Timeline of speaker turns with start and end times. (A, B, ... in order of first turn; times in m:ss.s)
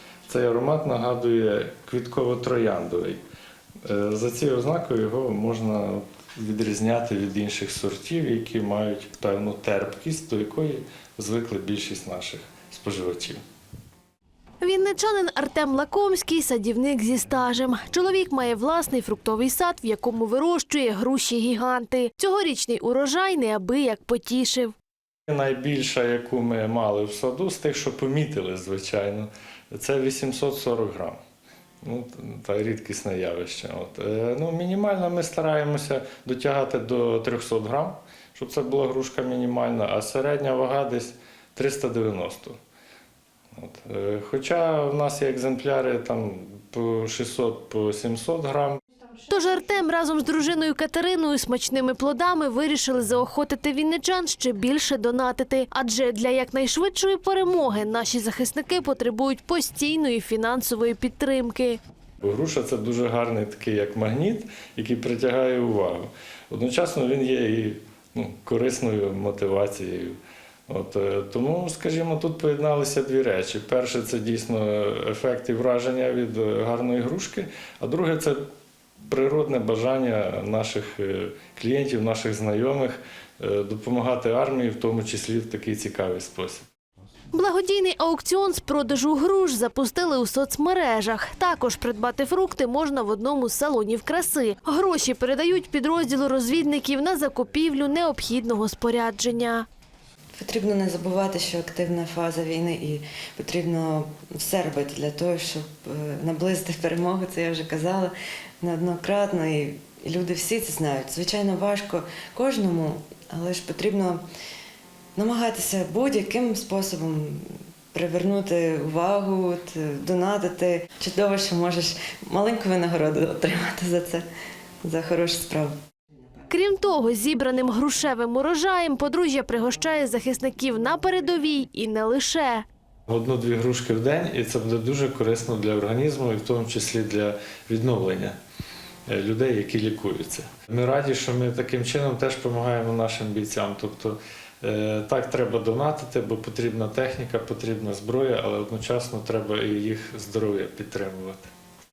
0:00.3-0:03.2 A
0:03.8-0:13.4 A
0:14.6-0:24.7 B
0:25.3-0:31.2 A
0:31.8-0:42.6 A
0:43.5-0:48.8 A
0:49.3-1:01.8 B
1:02.2-1:10.2 A
1:10.7-1:18.4 A
1:19.0-1:26.6 A
1:27.3-1:39.6 B
1:40.4-1:54.2 C
1:55.1-2:04.2 C
2:04.8-2:05.7 C
2:06.5-2:12.6 B
2:13.1-2:18.4 A
2:19.1-2:31.4 A